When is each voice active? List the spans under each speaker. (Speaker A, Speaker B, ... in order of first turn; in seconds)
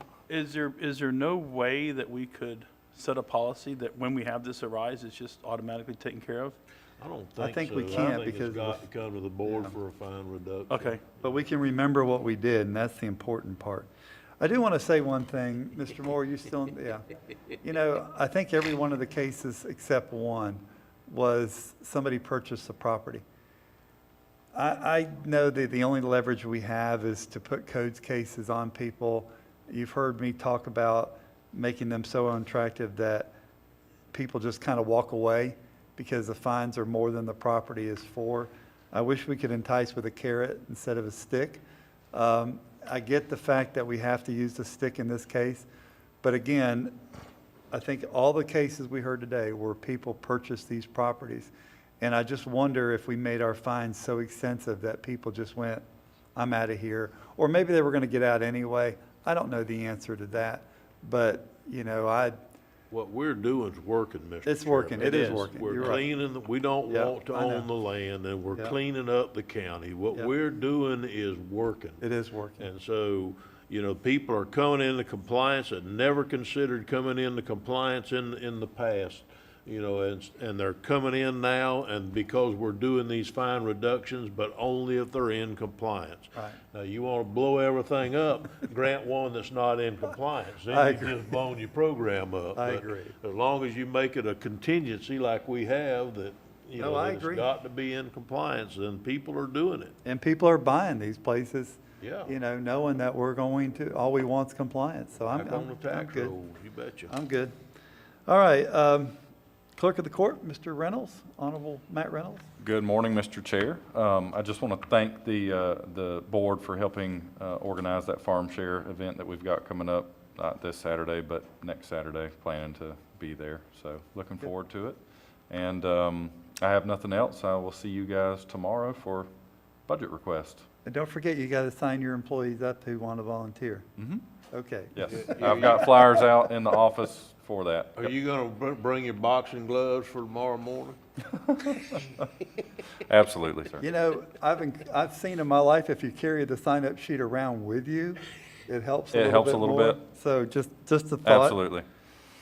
Speaker A: 0.3-6.6, 10.7-11.0
Speaker B: 7.0-11.0, 62.9-72.0, 72.6-99.9, 102.0-102.3, 105.3-107.1, 135.2-135.9, 138.0-141.0
Speaker C: 7.4-8.8, 9.4-9.8, 11.2-13.9, 14.4-17.0, 17.6-23.2, 24.5-33.3, 34.1-41.6, 42.1-45.7, 46.2-46.9, 47.7-55.9, 56.4-62.4, 64.5-66.1, 66.9-67.7, 72.0-72.7, 90.7-91.3, 92.6-93.1, 96.8-97.5, 100.0-106.3, 107.1-107.5, 108.3-109.2, 109.8-112.5, 130.8-133.9, 134.5-136.0, 143.8-151.6
Speaker D: 112.6-129.3, 129.9-130.7, 134.0-134.2, 134.9-137.9, 143.1-143.8, 149.1-150.0, 151.2-151.8